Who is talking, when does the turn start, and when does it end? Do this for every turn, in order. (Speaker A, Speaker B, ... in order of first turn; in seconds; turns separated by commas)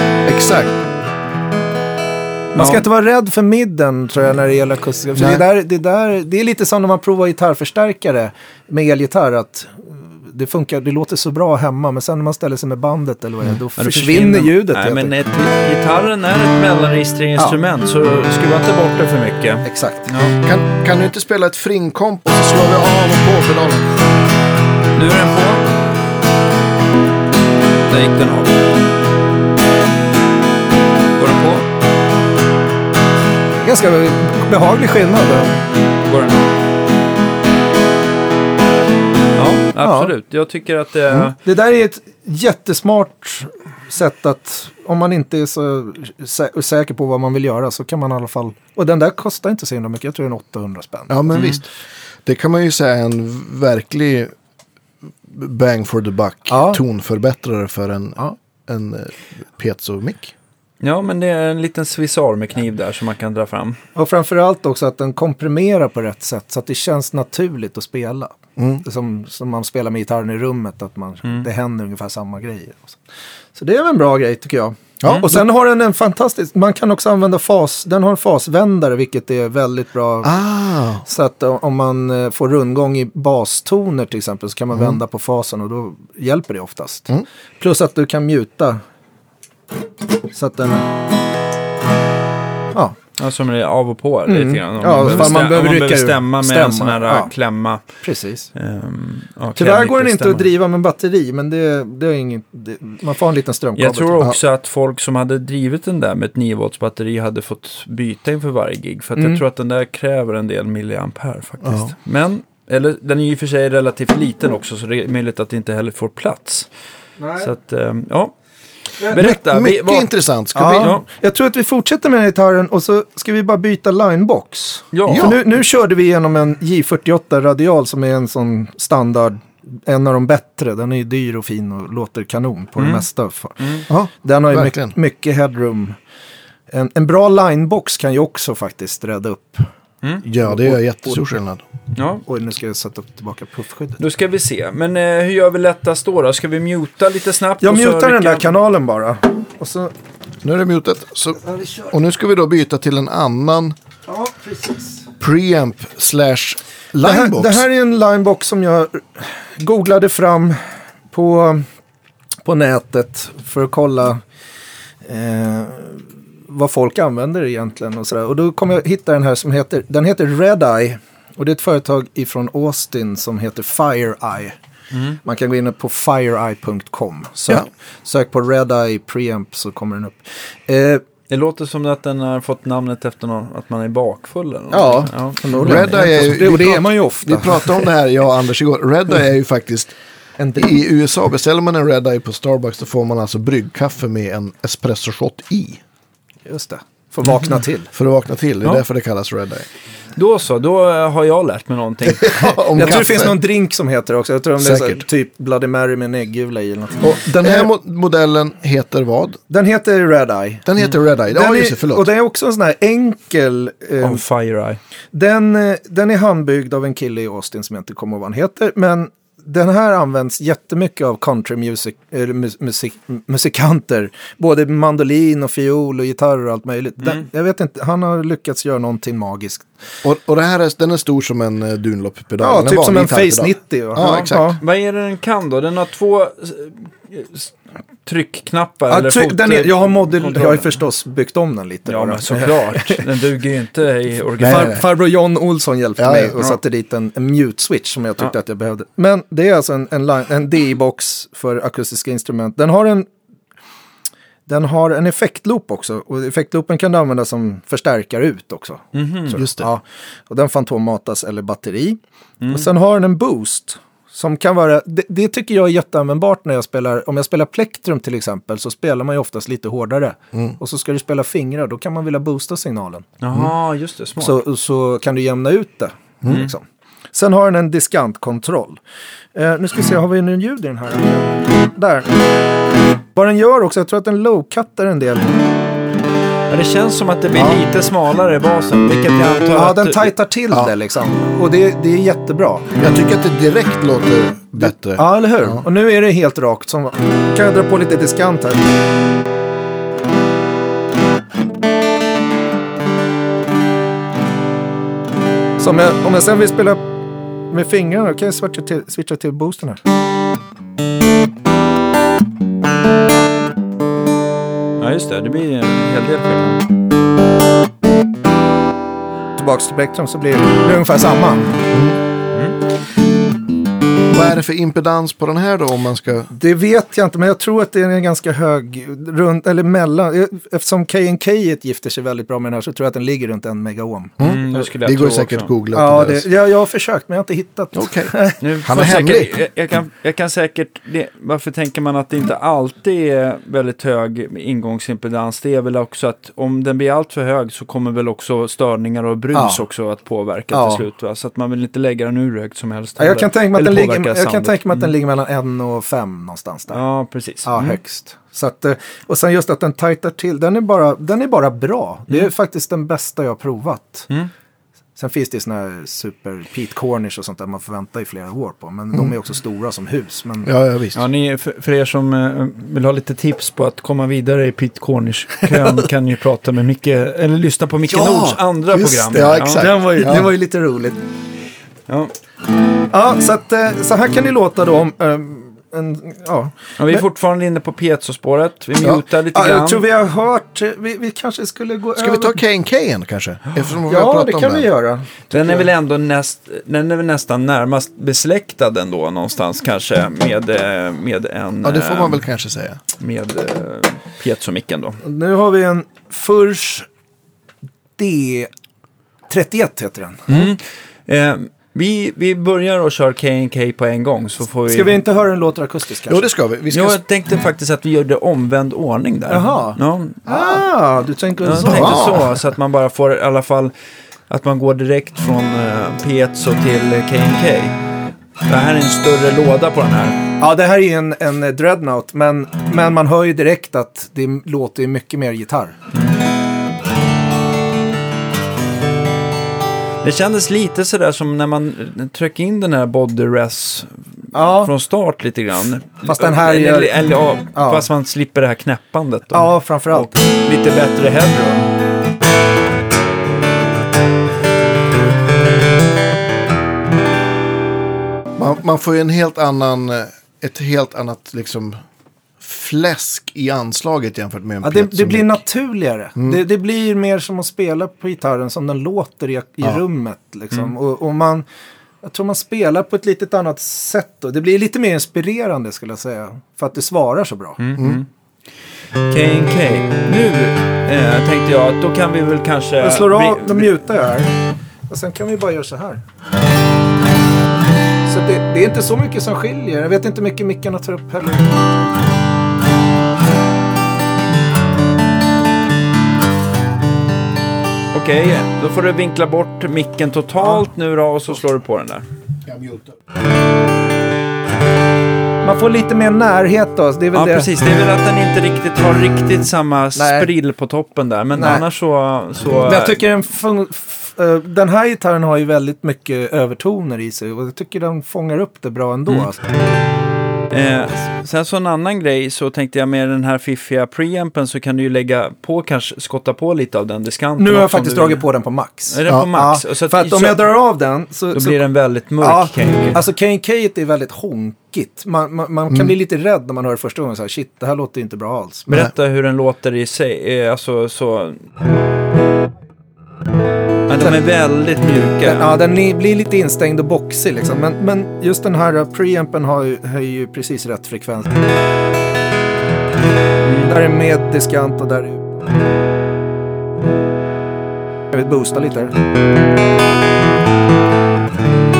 Speaker A: 0.2-0.7, Speaker B: 2.5-15.1, Speaker C: 2.6-2.8, Speaker A: 5.2-5.4, Speaker C: 13.8-20.4, Speaker B: 19.6-20.1, Speaker A: 20.4-23.9, Speaker C: 24.9-25.6, Speaker C: 27.9-28.6, Speaker C: 31.2-31.7, Speaker B: 33.6-35.6, Speaker C: 36.0-36.5, Speaker C: 39.4-41.4, Speaker B: 39.8-40.1, Speaker B: 41.4-51.4, Speaker A: 51.1-51.6, Speaker A: 52.2-54.3, Speaker A: 55.2-60.3, Speaker B: 56.5-56.8, Speaker C: 60.8-63.8, Speaker B: 63.9-73.0, Speaker A: 68.6-68.8, Speaker B: 73.5-80.3, Speaker A: 75.0-75.4, Speaker A: 80.2-81.0, Speaker B: 81.0-88.8, Speaker B: 90.3-90.9, Speaker C: 93.2-97.8, Speaker B: 94.2-97.3, Speaker B: 98.0-98.5, Speaker C: 98.5-100.5, Speaker B: 99.5-104.2, Speaker C: 103.8-116.7, Speaker B: 109.2-109.4, Speaker A: 111.6-111.9, Speaker B: 117.2-117.5, Speaker C: 117.4-118.3, Speaker B: 119.0-119.2, Speaker C: 119.1-120.1, Speaker A: 119.1-121.0, Speaker B: 120.5-135.9, Speaker C: 120.7-121.0, Speaker C: 124.9-125.4, Speaker A: 125.0-125.4, Speaker C: 132.8-133.0, Speaker A: 133.9-134.9, Speaker B: 136.7-139.7, Speaker A: 140.2-141.6, Speaker B: 140.4-141.2, Speaker C: 141.9-142.2, Speaker B: 142.2-144.0, Speaker C: 144.0-148.5, Speaker B: 147.6-149.9, Speaker A: 150.4-153.8, Speaker B: 151.4-151.9, Speaker B: 154.1-155.1, Speaker A: 155.2-157.6, Speaker B: 157.0-161.7, Speaker B: 162.4-164.2, Speaker B: 165.0-174.6, Speaker C: 174.9-175.2, Speaker B: 175.2-181.0, Speaker C: 181.3-186.3, Speaker B: 184.7-187.9, Speaker A: 185.6-189.9, Speaker B: 190.4-190.7, Speaker A: 190.5-195.8, Speaker B: 196.4-197.9, Speaker A: 197.9-199.7, Speaker C: 200.2-202.8, Speaker A: 202.1-203.3, Speaker B: 202.3-207.7, Speaker A: 204.6-205.0, Speaker A: 207.0-209.4, Speaker B: 209.5-210.7, Speaker A: 210.7-212.1, Speaker B: 211.3-214.2, Speaker C: 214.0-214.8, Speaker B: 215.1-229.7, Speaker A: 230.0-234.6, Speaker B: 232.4-234.6, Speaker C: 234.0-237.5, Speaker C: 238.0-240.7, Speaker B: 238.9-243.1, Speaker C: 241.9-244.8, Speaker A: 244.4-244.8, Speaker B: 244.4-253.1, Speaker A: 246.0-246.4, Speaker B: 254.5-262.0, Speaker C: 258.9-259.4, Speaker A: 259.4-259.7, Speaker C: 262.4-262.7, Speaker B: 262.5-273.1, Speaker C: 273.2-274.4, Speaker B: 274.2-278.8, Speaker B: 279.3-282.1, Speaker B: 283.1-285.4, Speaker C: 286.5-290.1, Speaker A: 287.3-287.6, Speaker B: 289.5-292.7, Speaker A: 292.8-295.6, Speaker B: 294.6-298.7, Speaker B: 305.6-306.8, Speaker B: 307.5-309.8, Speaker C: 314.8-316.6, Speaker B: 319.4-321.6, Speaker A: 321.7-322.0, Speaker A: 324.1-326.3, Speaker B: 326.3-334.7, Speaker A: 334.2-336.3, Speaker C: 334.2-335.5, Speaker B: 335.7-338.4, Speaker A: 337.7-339.4, Speaker C: 338.4-354.9, Speaker B: 349.3-349.6, Speaker B: 350.5-350.8, Speaker B: 353.0-356.8, Speaker C: 356.7-357.8, Speaker B: 357.4-364.1, Speaker B: 364.9-370.5, Speaker A: 370.4-371.0, Speaker C: 370.9-379.7, Speaker A: 377.9-380.3, Speaker B: 379.6-381.0, Speaker C: 381.9-382.1, Speaker B: 382.9-387.0, Speaker C: 386.8-389.8, Speaker B: 389.3-392.4, Speaker A: 391.9-394.7, Speaker B: 393.9-395.7, Speaker C: 395.3-402.2, Speaker A: 401.6-402.8, Speaker C: 403.0-405.0, Speaker B: 405.0-406.9, Speaker B: 408.0-408.5, Speaker B: 409.3-410.5, Speaker C: 410.3-415.0, Speaker B: 414.7-416.3, Speaker A: 416.1-417.0, Speaker C: 416.7-420.5, Speaker B: 419.3-422.2, Speaker C: 421.4-423.7, Speaker A: 421.6-422.3, Speaker C: 424.3-427.8, Speaker C: 428.4-430.2, Speaker B: 430.4-435.8, Speaker C: 440.0-451.7, Speaker B: 444.3-444.7, Speaker B: 446.1-446.9, Speaker B: 447.5-447.9, Speaker B: 449.3-450.1, Speaker A: 458.4-461.8, Speaker A: 462.4-465.4, Speaker B: 464.6-471.4, Speaker B: 472.0-477.6, Speaker C: 477.6-478.1, Speaker C: 479.1-483.7, Speaker B: 482.8-484.3, Speaker B: 484.9-486.0, Speaker B: 488.1-491.5, Speaker C: 497.9-502.0, Speaker B: 500.4-500.7, Speaker A: 502.4-502.9, Speaker B: 505.4-507.5, Speaker C: 507.1-513.0, Speaker B: 509.9-510.3, Speaker B: 511.3-511.6, Speaker B: 512.6-519.4, Speaker C: 520.5-528.2, Speaker B: 527.4-531.6, Speaker C: 528.9-530.4, Speaker C: 531.3-533.0, Speaker B: 532.2-538.7, Speaker C: 538.7-541.4, Speaker C: 543.9-545.5, Speaker B: 545.2-551.4, Speaker C: 553.4-553.7, Speaker B: 553.6-555.2, Speaker B: 558.1-558.9